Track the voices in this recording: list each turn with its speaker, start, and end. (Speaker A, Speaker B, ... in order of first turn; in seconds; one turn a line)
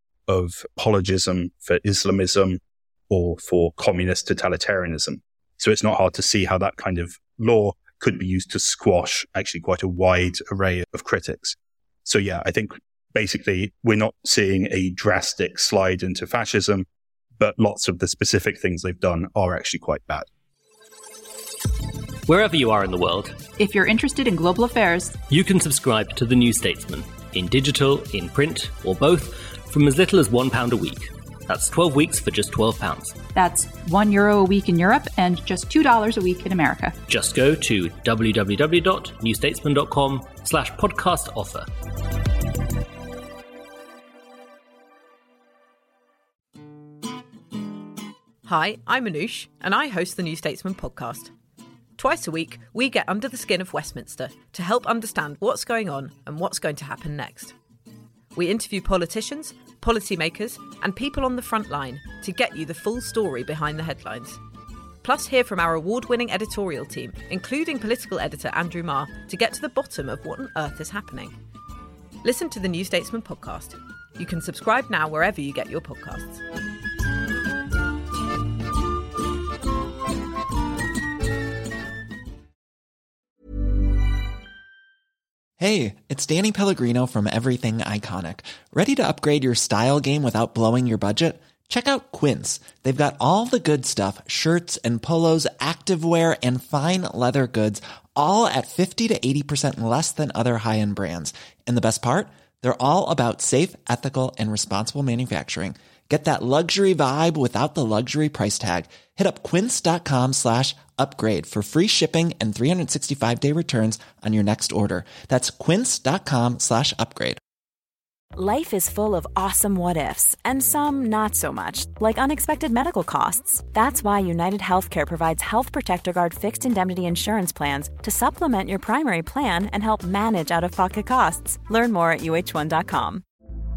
Speaker A: 0.3-16.9
Speaker A: 17.4-20.3
Speaker B: 22.3-23.4
Speaker C: 23.6-25.1
Speaker B: 25.3-33.2
Speaker C: 33.4-37.0
Speaker B: 37.1-41.7
Speaker D: 48.5-51.3
Speaker D: 52.0-57.5
Speaker D: 58.3-64.4
Speaker D: 65.0-71.4
Speaker D: 72.2-76.4
Speaker E: 85.6-117.4
Speaker F: 118.4-133.2